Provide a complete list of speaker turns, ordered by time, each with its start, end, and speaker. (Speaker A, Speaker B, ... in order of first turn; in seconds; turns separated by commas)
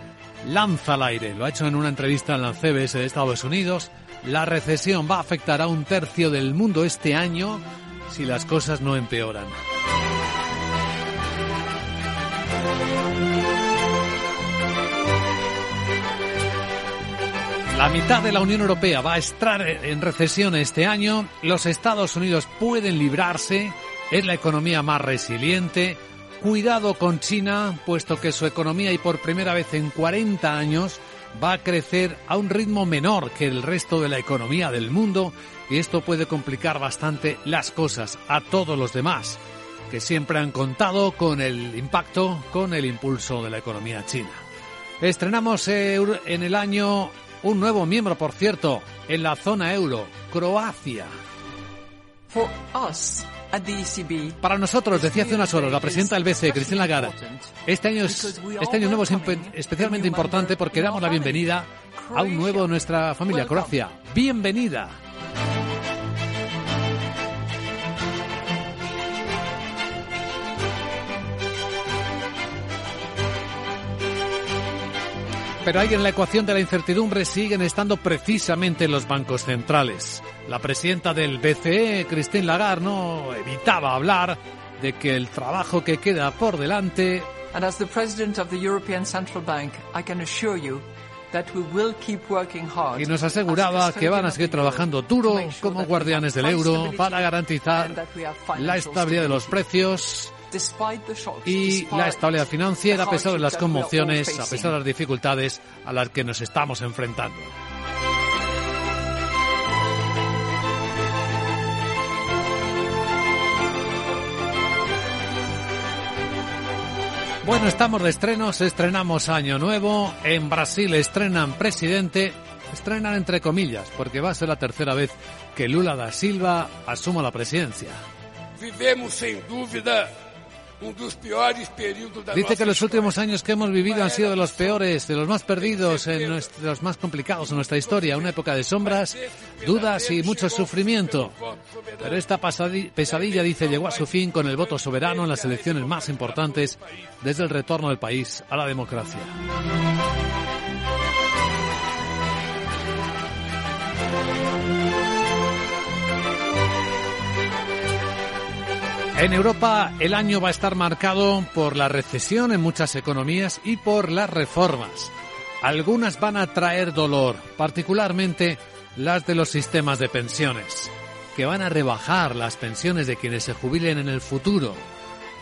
Speaker A: 0.4-9.6, Speaker A: 17.7-39.4, Speaker A: 39.9-44.4, Speaker A: 45.0-51.1, Speaker B: 52.3-54.4, Speaker A: 54.4-65.0, Speaker B: 54.9-63.8, Speaker A: 75.6-87.3, Speaker B: 87.5-99.6, Speaker A: 92.9-98.0, Speaker A: 98.5-100.3, Speaker B: 100.5-104.8, Speaker A: 101.4-107.5, Speaker A: 117.4-128.0, Speaker C: 128.6-130.2, Speaker C: 130.8-133.2, Speaker A: 132.3-141.3, Speaker C: 133.8-134.8, Speaker C: 135.6-136.5, Speaker C: 137.4-142.2, Speaker A: 142.0-149.3, Speaker C: 143.0-147.1, Speaker A: 159.2-165.1, Speaker A: 165.6-174.8